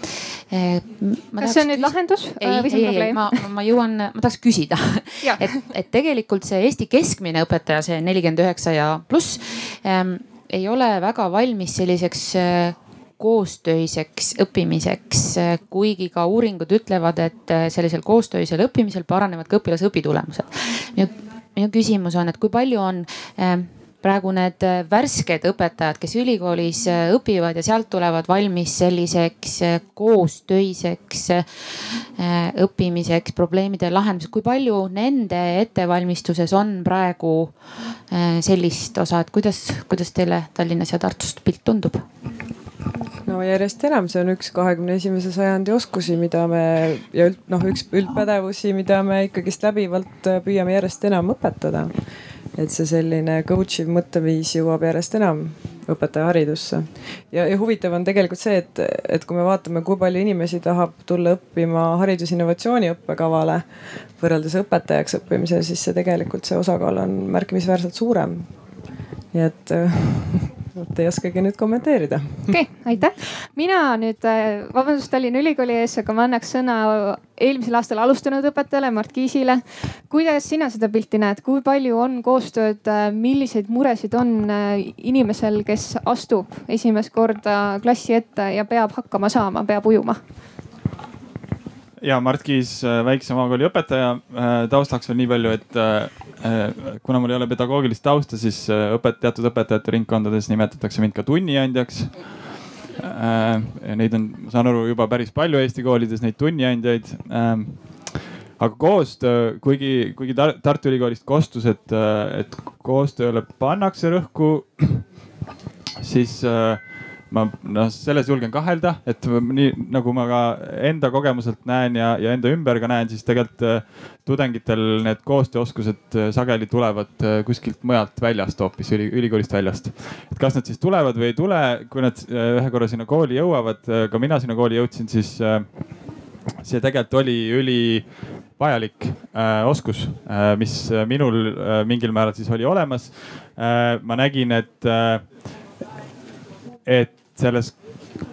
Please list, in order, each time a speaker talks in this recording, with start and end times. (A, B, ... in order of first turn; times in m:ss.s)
0:00.5-0:31.5 A
0:01.4-0:03.3 B
0:32.2-0:42.0 A
0:43.2-0:51.9 C
0:52.6-1:03.6 C
1:04.2-1:08.5 C
1:09.3-1:12.5 C
1:12.5-1:30.2 B
1:32.0-1:42.5 D
1:43.0-1:55.0 D
1:56.0-2:25.4 D
2:26.8-2:28.0 D